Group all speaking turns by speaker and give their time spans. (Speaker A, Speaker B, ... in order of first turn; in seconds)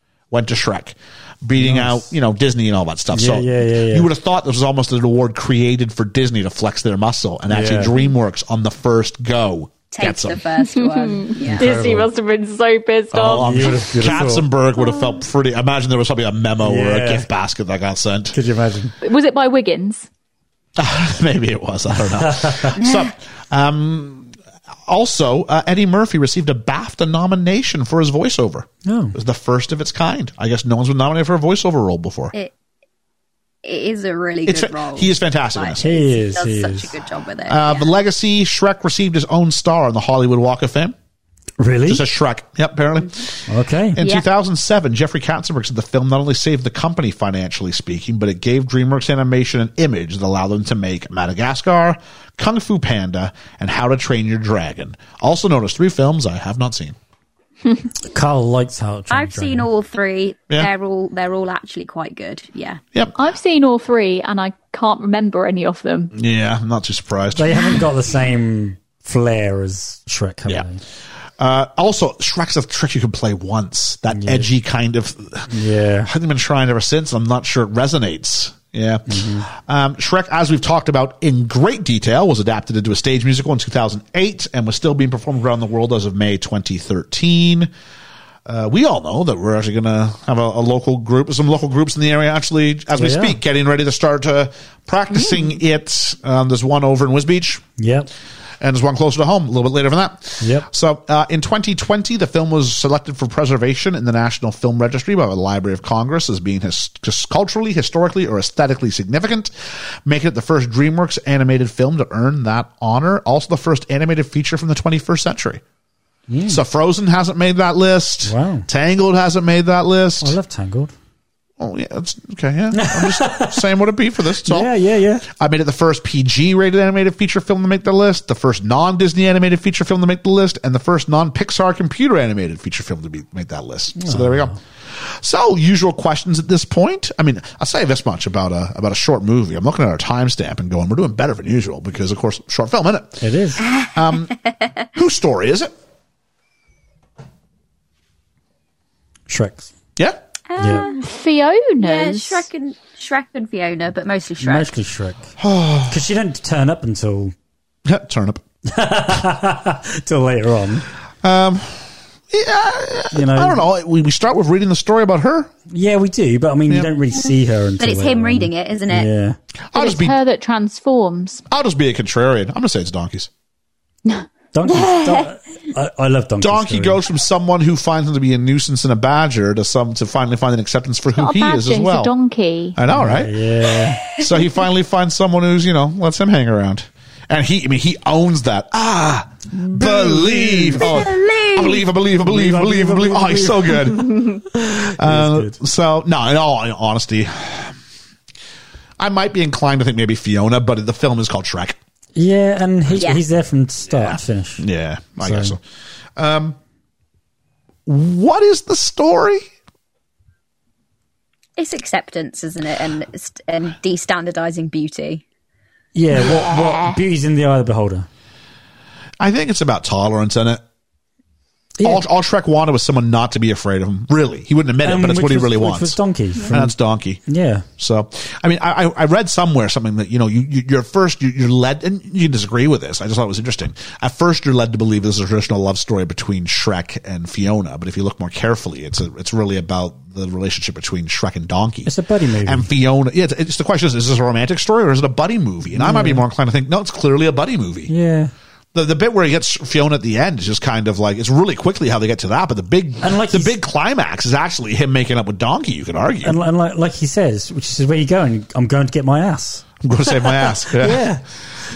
Speaker A: 0.3-10.4, 13.1-18.4, 20.8-24.3, 24.9-32.3, 34.5-35.8, 37.5-41.0, 41.9-43.5, 44.0-57.0, 66.1-67.7, 71.4-75.5, 76.0-87.7, 88.5-97.6, 98.6-109.5, 110.0-115.6, 116.5-120.4, 121.6-124.7, 125.2-143.3, 143.8-144.3, 144.9-145.7, 155.4-156.0, 157.9-158.4, 161.2-165.5, 169.7-170.2, 171.5-173.3, 176.4-182.1, 182.8-183.4, 184.1-197.8, 199.0-201.8, 204.0-205.6, 206.2-206.6, 207.9-209.5, 219.2-220.6, 221.8-226.0, 226.5-227.2, 227.8-247.9, 248.7-256.4, 259.8-261.1
Speaker B: 1.6-2.1, 3.1-4.1, 7.5-8.0, 11.4-12.1, 13.2-14.5, 16.6-17.3, 18.3-18.9, 22.2-22.7, 28.9-29.2, 35.8-36.9, 41.6-42.0, 43.5-44.0, 58.1-59.7, 67.4-70.8, 74.1-74.5, 75.5-76.1, 79.1-79.5, 93.0-93.4, 97.8-98.1, 100.4-100.7, 116.3-116.6, 118.2-118.7, 120.2-120.9, 122.7-123.6, 124.5-125.3, 134.0-134.6, 143.2-143.6, 149.3-149.7, 150.6-150.9, 154.4-155.3, 155.9-157.3, 158.7-160.9, 163.1-163.6, 165.7-169.4, 174.5-177.0, 182.9-184.1, 189.6-191.0, 192.2-195.6, 202.2-204.6, 205.2-205.6, 215.9-218.1, 221.8-222.0, 224.8-227.7, 241.8-242.7, 245.7-246.2, 247.9-248.3, 253.0-253.6, 256.2-261.2
Speaker C: 9.9-11.8, 22.8-23.1, 33.6-38.0, 44.0-44.3, 59.1-62.8, 143.7-143.9, 150.5-151.1, 151.8-154.7, 167.8-169.1, 190.7-191.9, 202.9-203.2, 211.6-215.2, 216.2-216.7
Speaker D: 10.6-14.1, 14.8-15.1, 19.0-20.1, 63.2-66.1, 150.8-152.5, 169.7-171.4, 181.2-182.8